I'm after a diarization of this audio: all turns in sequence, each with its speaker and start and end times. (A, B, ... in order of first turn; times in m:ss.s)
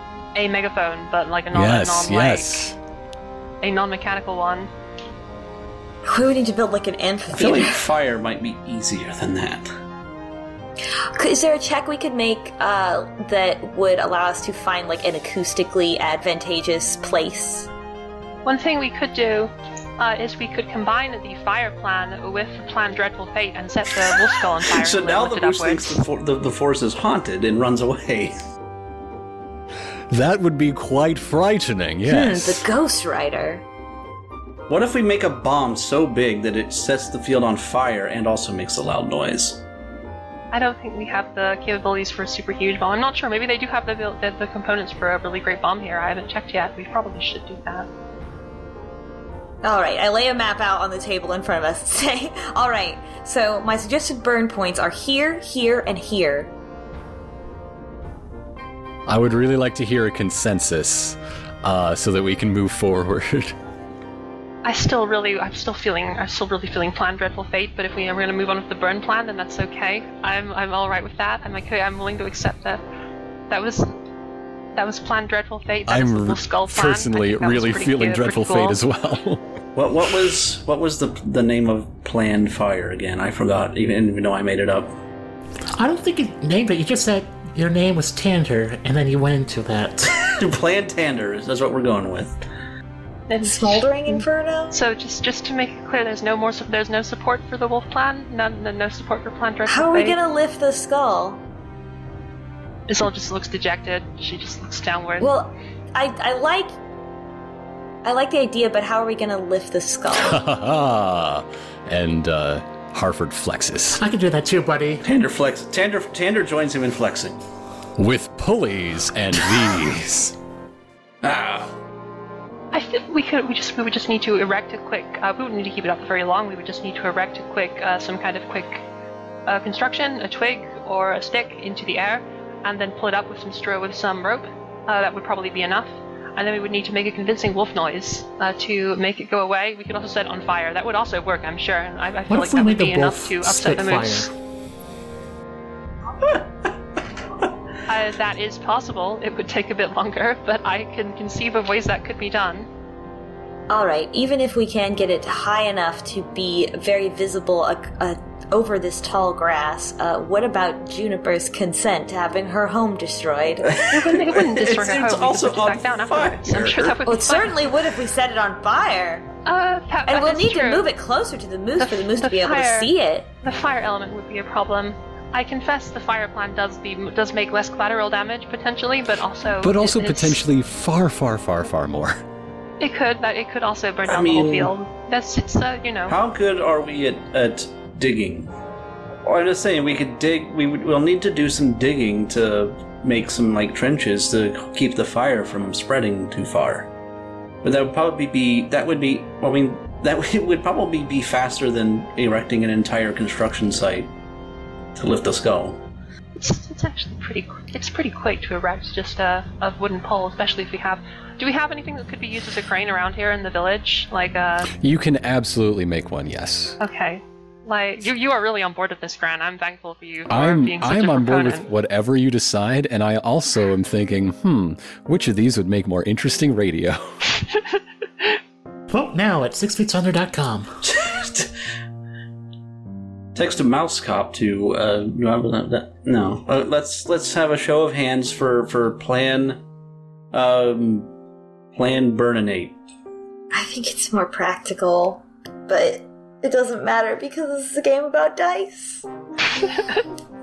0:00.3-0:02.6 A
0:01.5-0:02.8 B
0:03.6-0:04.7 A
0:06.0-0:07.8 C
0:07.3-0:09.7 D
0:11.2-0:17.7 C
0:18.4-0:26.0 A
0:24.7-0:28.3 D
0:30.1-0:32.6 B
0:32.0-0:33.6 C
0:34.7-0:39.6 D
0:40.5-0:47.9 A
0:49.6-0:56.5 C
0:59.1-1:03.5 B
1:04.6-1:12.8 A
1:13.5-1:13.9 A
1:14.7-1:18.8 A
1:15.9-1:19.4 B
1:19.8-1:24.9 D
1:25.8-1:30.3 E
1:30.2-1:32.4 D
1:33.3-1:40.2 A
1:33.4-1:34.8 C
1:39.7-1:41.4 C
1:42.9-1:45.3 A
1:45.2-1:46.7 C
1:48.0-1:50.4 C
1:50.1-1:54.0 B
1:54.0-1:55.0 E
1:55.0-1:57.4 D
1:58.0-2:00.4 B
2:01.2-2:01.7 D
2:02.7-2:08.8 A
2:09.4-2:24.3 A
2:22.3-2:24.3 E
2:27.9-2:32.7 A
2:33.7-2:43.8 C
2:43.7-2:47.0 D
2:43.9-2:47.6 A
2:47.0-2:49.3 C
2:49.4-2:50.9 A
2:50.1-2:53.3 C
2:51.8-2:52.9 A
2:53.4-3:00.4 A
2:59.6-3:02.2 B
3:02.8-3:06.2 A
3:04.1-3:04.7 D
3:06.1-3:08.5 D
3:09.2-3:16.9 D
3:17.6-3:24.1 D
3:25.0-3:25.8 D
3:26.4-3:34.7 A
3:34.7-3:36.8 B
3:36.8-3:41.7 A
3:40.3-3:47.2 B
3:48.9-3:50.7 E
3:50.8-3:51.5 D
3:53.3-3:59.6 D
4:00.3-4:01.1 D
4:01.7-4:02.8 D
4:03.5-4:09.0 C
4:09.6-4:10.0 A